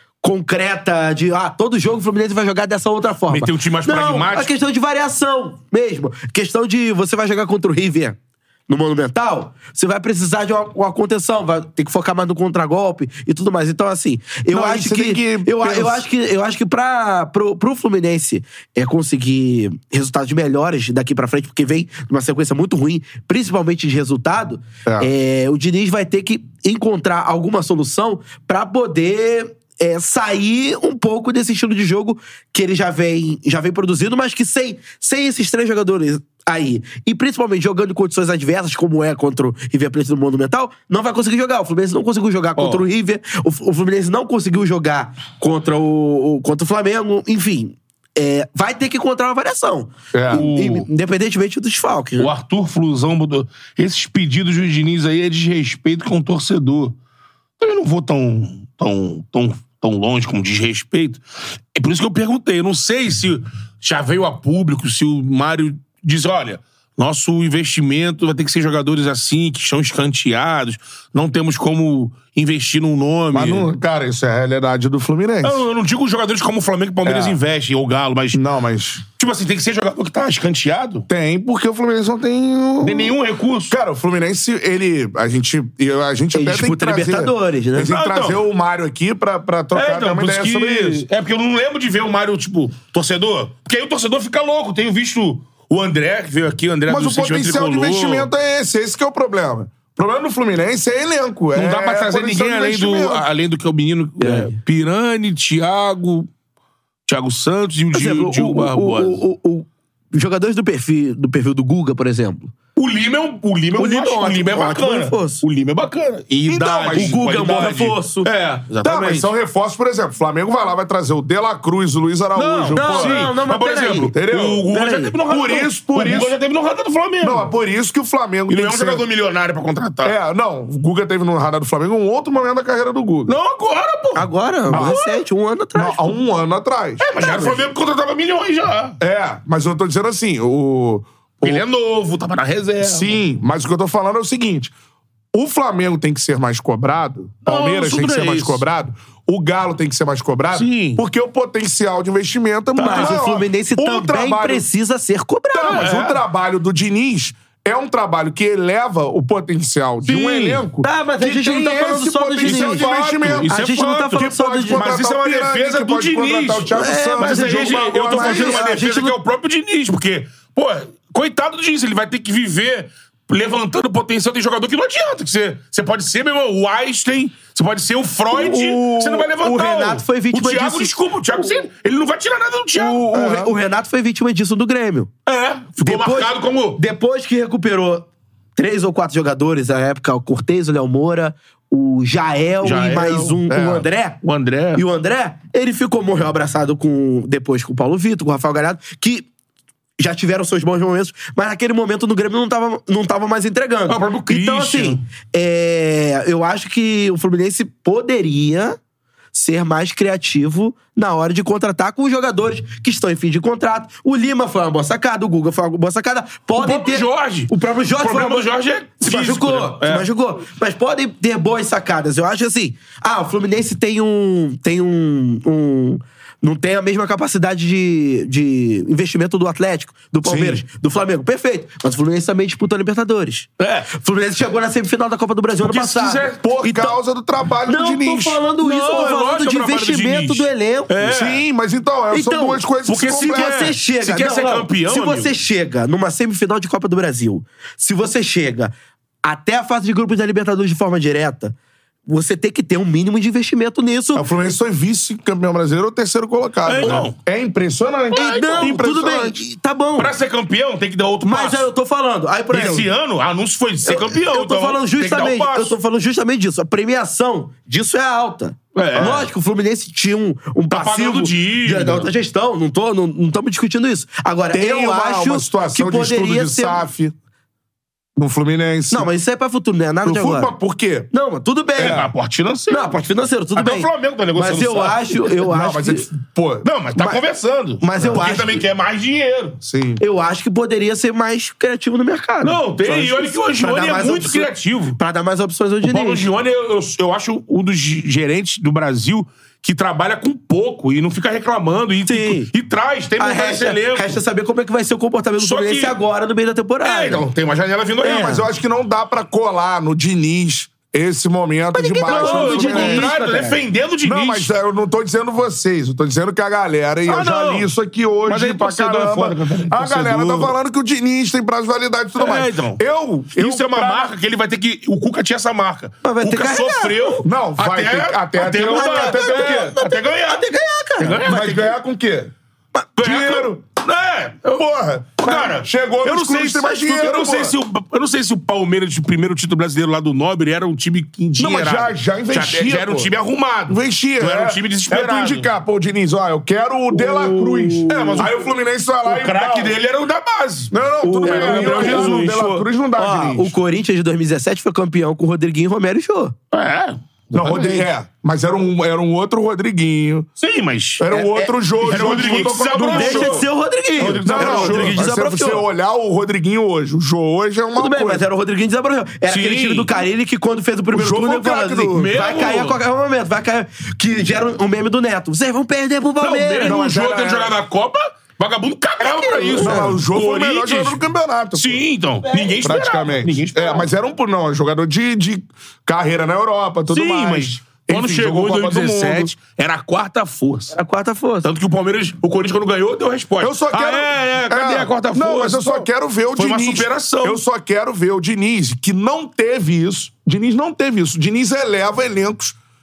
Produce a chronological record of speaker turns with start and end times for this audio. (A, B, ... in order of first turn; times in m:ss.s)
0:00.2-0:08.2 A
0:03.3-0:04.5 B
0:08.7-0:52.3 A
0:14.5-0:16.0 C
0:42.6-0:42.8 B
0:50.1-0:50.5 C
0:50.3-0:50.9 B
0:52.2-0:57.0 B
0:57.6-1:01.2 B
1:01.7-1:13.7 B
1:13.3-1:15.6 C
1:15.4-1:18.4 B
1:17.0-1:17.4 C
1:18.3-1:19.0 C
1:19.2-1:21.1 B
1:21.1-1:23.2 C
1:22.8-1:23.8 B
1:23.7-1:31.0 C
1:26.3-1:27.9 A
1:27.8-1:28.4 B
1:29.7-1:38.3 B
1:36.9-1:43.2 C
1:41.5-1:46.3 B
1:44.2-1:44.6 A
1:47.1-1:49.2 B
1:47.9-1:52.5 A
1:52.8-1:59.3 B
1:53.8-1:55.4 A
1:56.5-1:57.8 C
1:56.8-1:58.3 A
1:58.8-2:03.3 C
1:58.8-1:59.2 A
2:02.4-2:07.5 B
2:02.4-2:04.2 A
2:04.1-2:04.7 C
2:04.7-2:05.2 A
2:05.3-2:06.4 C
2:07.2-2:09.0 C
2:08.5-2:10.2 B
2:10.0-2:13.4 C
2:13.3-2:15.2 B
2:14.2-2:16.2 A
2:14.7-2:15.0 C
2:15.8-2:17.1 C
2:17.0-2:19.0 B
2:17.2-2:17.6 A
2:19.0-2:21.6 C
2:21.4-2:23.2 B
2:22.8-2:24.7 C
2:25.3-2:34.6 C
2:27.4-2:28.6 B
2:30.5-2:31.0 B
2:32.8-2:33.2 B
2:32.8-2:35.8 A
2:35.5-2:43.5 C
2:35.6-2:36.2 B
2:40.0-2:40.6 B
2:40.8-2:42.9 A
2:42.4-3:03.0 B
2:43.4-2:44.9 A
2:44.1-2:48.6 C
2:46.7-2:49.2 A
2:58.3-3:01.0 A
3:02.8-3:05.1 A
3:02.8-3:03.5 C
3:05.3-3:06.8 B
3:05.8-3:14.2 A
3:12.6-3:13.4 B
3:13.5-3:13.9 C
3:14.2-3:14.8 B
3:14.8-3:19.3 A
3:20.0-3:28.8 A
3:23.9-3:25.0 B
3:29.3-3:38.5 A
3:36.6-3:40.1 B
3:39.0-3:57.0 A
3:50.3-3:50.6 B
3:53.6-3:53.9 B
3:55.6-3:56.4 B
3:56.4-3:58.4 C
3:57.7-4:01.0 A
3:58.6-4:01.4 B
4:01.0-4:03.7 C
4:02.1-4:08.7 A
4:02.9-4:05.4 B
4:09.2-4:11.5 A
4:12.1-4:14.3 A
4:14.2-4:19.4 C
4:16.6-4:17.2 B
4:16.8-4:17.0 A
4:18.1-4:18.8 B
4:18.1-4:20.1 A
4:20.0-4:21.7 B
4:21.2-4:22.9 A
4:22.5-4:25.8 B
4:23.8-4:36.8 A
4:28.8-4:29.3 B
4:28.9-4:29.3 C
4:30.7-4:32.1 B
4:34.5-4:37.1 C
4:38.2-4:39.1 C
4:38.9-4:40.5 A
4:40.0-4:41.1 C
4:41.1-4:42.1 A
4:41.8-4:42.1 C
4:41.8-4:43.0 B
4:42.7-4:46.1 A
4:43.6-4:45.3 B
4:45.4-4:46.7 C
4:46.6-4:49.6 B
4:47.0-4:47.2 A
4:47.8-4:48.6 A
4:49.6-4:50.0 C
4:50.0-4:56.3 A
4:52.4-4:55.0 B
4:55.8-5:04.2 B
5:02.1-5:02.5 A
5:03.2-5:07.3 A
5:05.4-5:06.0 B
5:06.8-5:08.4 B
5:08.0-5:13.1 C
5:08.1-5:08.4 A
5:11.7-5:13.6 A
5:12.0-5:14.5 B
5:14.0-5:24.1 C
5:17.1-5:17.7 B
5:18.3-5:20.6 B
5:22.2-5:22.8 B
5:23.3-5:30.5 B
5:26.0-5:27.2 A
5:27.2-5:29.8 C
5:28.6-5:31.6 A
5:31.0-5:31.8 B
5:31.2-5:32.3 C
5:33.0-5:34.6 B
5:33.0-5:33.6 C
5:34.5-5:37.6 C
5:35.2-5:45.5 B
5:41.4-5:43.1 C
5:43.7-5:49.8 C
5:46.9-5:48.3 A
5:47.9-5:48.3 B
5:49.0-5:52.4 B
5:50.7-5:53.5 C
5:51.0-5:56.4 A
5:56.5-5:57.9 B
5:57.3-6:00.3 C
6:00.4-6:01.1 B
6:01.0-6:03.5 C
6:01.1-6:05.6 A
6:01.8-6:05.1 B
6:04.2-6:08.2 C
6:07.8-6:16.8 A
6:09.3-6:10.0 B
6:10.9-6:12.1 C
6:11.9-6:12.8 B
6:16.2-6:21.0 B
6:16.6-6:17.6 C
6:19.0-6:20.0 A
6:19.6-6:21.8 C
6:21.6-6:23.9 B
6:22.2-6:22.7 A
6:22.6-6:29.3 C
6:26.9-6:30.8 B
6:30.7-6:31.5 A
6:31.4-6:37.4 B
6:33.4-6:42.6 C